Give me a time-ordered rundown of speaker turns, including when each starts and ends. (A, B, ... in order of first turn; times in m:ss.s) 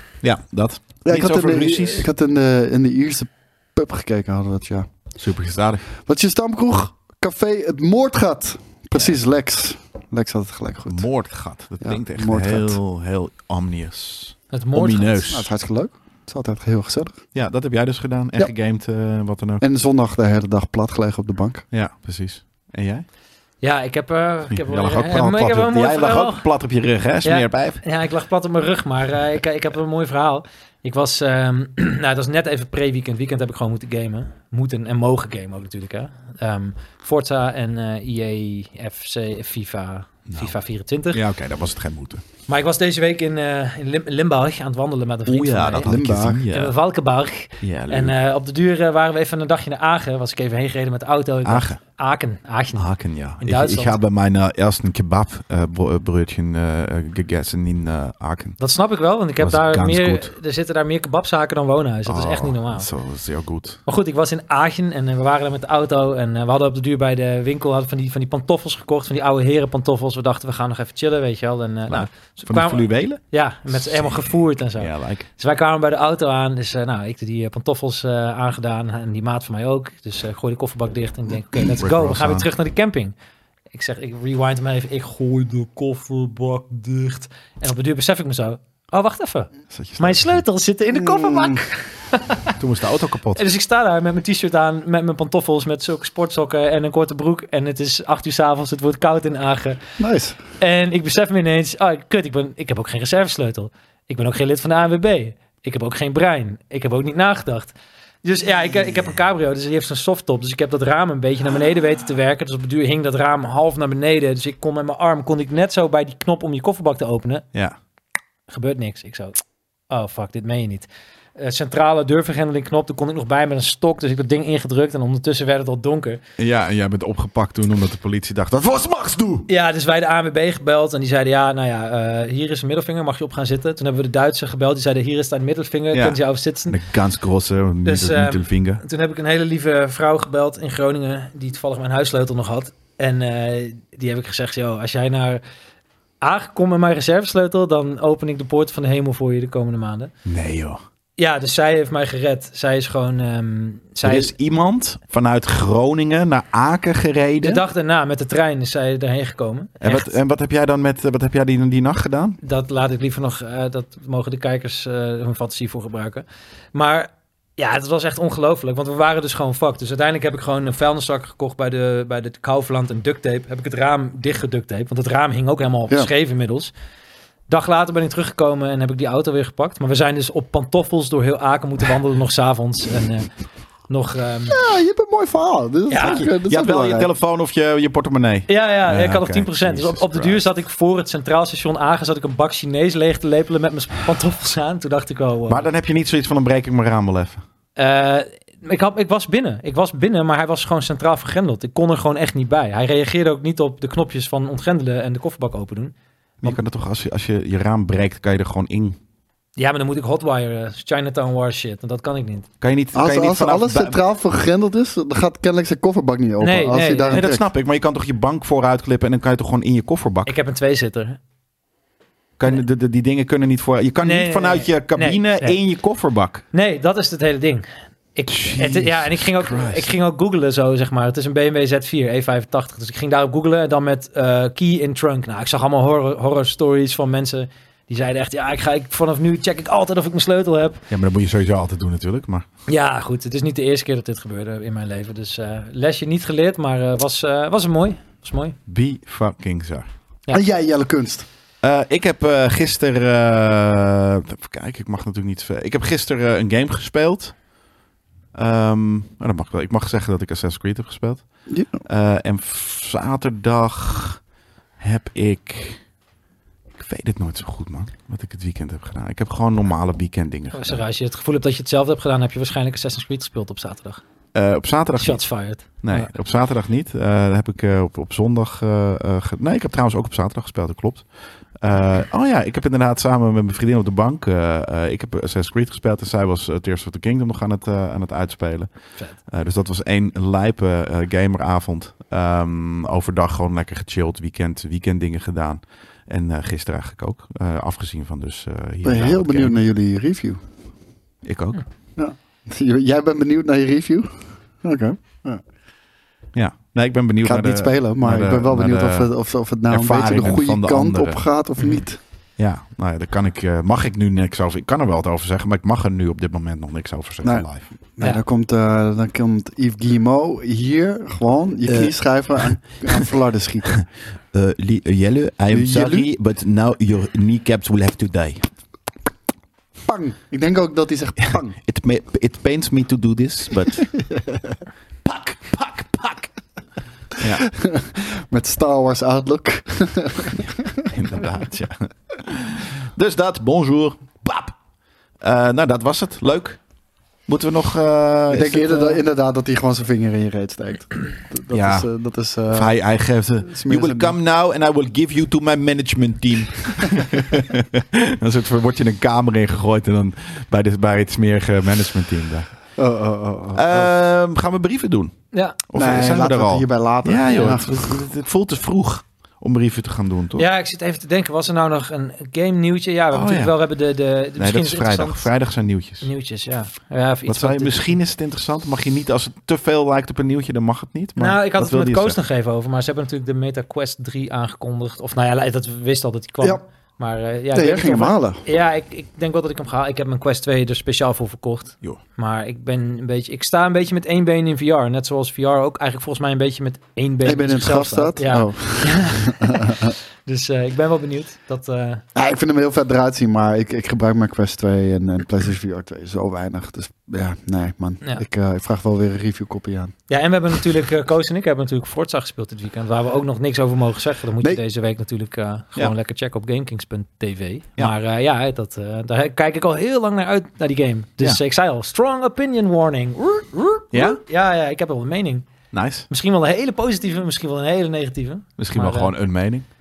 0:00.2-0:02.1 A
0:01.0-0:04.9 B
0:05.2-0:05.8 A
0:06.0-0:11.1 B
0:10.9-0:15.5 A
0:11.8-0:12.8 B
0:14.5-0:15.1 C
0:15.2-0:17.2 B
0:17.3-0:19.6 A
0:19.6-0:21.6 B
0:21.7-0:23.1 A
0:23.6-0:26.4 C
0:24.5-0:27.8 A
0:27.2-0:41.2 C
0:40.3-0:40.6 A
0:41.1-0:42.2 A
0:42.5-0:45.9 C
0:45.3-0:46.8 A
0:45.8-0:46.4 B
0:46.5-0:52.9 C
0:47.6-0:48.2 A
0:51.4-0:51.8 A
0:52.8-0:58.6 A
0:53.4-0:54.0 C
0:58.6-1:02.9 C
0:59.4-1:00.3 A
1:02.1-1:03.8 A
1:03.9-1:23.1 C
1:11.9-1:14.2 A
1:14.8-1:15.3 A
1:21.6-1:22.5 A
1:23.7-1:32.6 C
1:29.7-1:30.4 A
1:31.0-1:31.6 B
1:32.6-1:33.4 A
1:33.4-1:39.8 C
1:40.0-1:40.4 B
1:40.6-1:47.7 C
1:48.2-1:57.4 C
1:58.5-1:59.4 C
1:59.9-2:06.2 C
2:06.4-2:09.5 A
2:09.5-2:16.8 C
2:15.9-2:18.8 A
2:17.9-2:25.4 C
2:26.2-2:30.1 C
2:30.3-2:30.8 A
2:31.2-2:34.3 C
2:34.0-2:37.6 A
2:37.4-2:40.1 C
2:39.8-2:42.4 A
2:42.4-2:56.7 C
2:57.5-3:03.3 C
3:03.9-3:04.6 C
3:04.5-3:07.1 B
3:05.9-3:06.3 C
3:06.2-3:10.5 A
3:08.5-3:15.7 C
3:15.5-3:17.4 A
3:17.8-3:26.6 C
3:26.4-3:29.0 A
3:29.6-3:32.5 C
3:32.6-3:34.0 A
3:33.0-3:37.4 B
3:36.4-3:37.2 C
3:37.1-3:40.3 A
3:40.3-3:41.2 C
3:42.4-3:46.4 A
3:44.0-3:45.6 C
3:46.5-4:00.8 C
3:48.3-3:49.9 A
4:00.9-4:02.5 A
4:02.7-4:08.6 C
4:08.7-4:09.9 A
4:10.3-4:11.2 B
4:11.6-4:17.4 A
4:18.4-4:21.2 A
4:21.5-4:21.8 B
4:21.8-4:24.2 A
4:24.8-4:25.8 A
4:26.8-4:30.8 A
4:30.5-4:34.0 C
4:34.3-4:35.2 A
4:35.0-4:36.1 C
4:35.8-4:41.1 A
4:41.6-4:48.7 A
4:49.3-4:59.6 A
4:58.8-5:00.4 B
5:01.2-5:01.6 A
5:02.0-5:05.4 B
5:06.3-5:09.1 A
5:07.2-5:12.0 B
5:09.7-5:11.2 A
5:12.4-5:17.7 A
5:18.0-5:23.7 B
5:21.7-5:21.9 A
5:23.7-5:28.5 A
5:25.5-5:26.1 B
5:29.9-5:31.6 B
5:31.6-5:33.9 A
5:33.9-5:34.6 B
5:35.0-5:36.3 A
5:37.2-5:37.4 A
5:37.3-5:40.9 B
5:40.9-5:44.6 A
5:45.2-5:46.6 A
5:47.3-5:49.0 A
5:48.3-5:52.7 B
5:51.5-5:51.9 A
5:52.5-6:02.5 A
5:53.5-5:54.2 B
6:02.8-6:03.9 B
6:03.5-6:05.2 A
6:05.3-6:05.6 C
6:05.7-6:10.5 A
6:05.7-6:08.0 B
6:10.4-6:15.3 C
6:13.1-6:13.6 A
6:14.4-6:16.1 A
6:16.0-6:18.0 C
6:17.3-6:22.2 A
6:21.2-6:42.0 C
6:27.5-6:28.4 B
6:37.2-6:40.0 B
6:42.2-6:49.9 B
6:50.1-7:05.5 C
7:03.9-7:04.2 A
7:05.7-7:06.1 A
7:06.1-7:09.1 C
7:08.6-7:09.7 A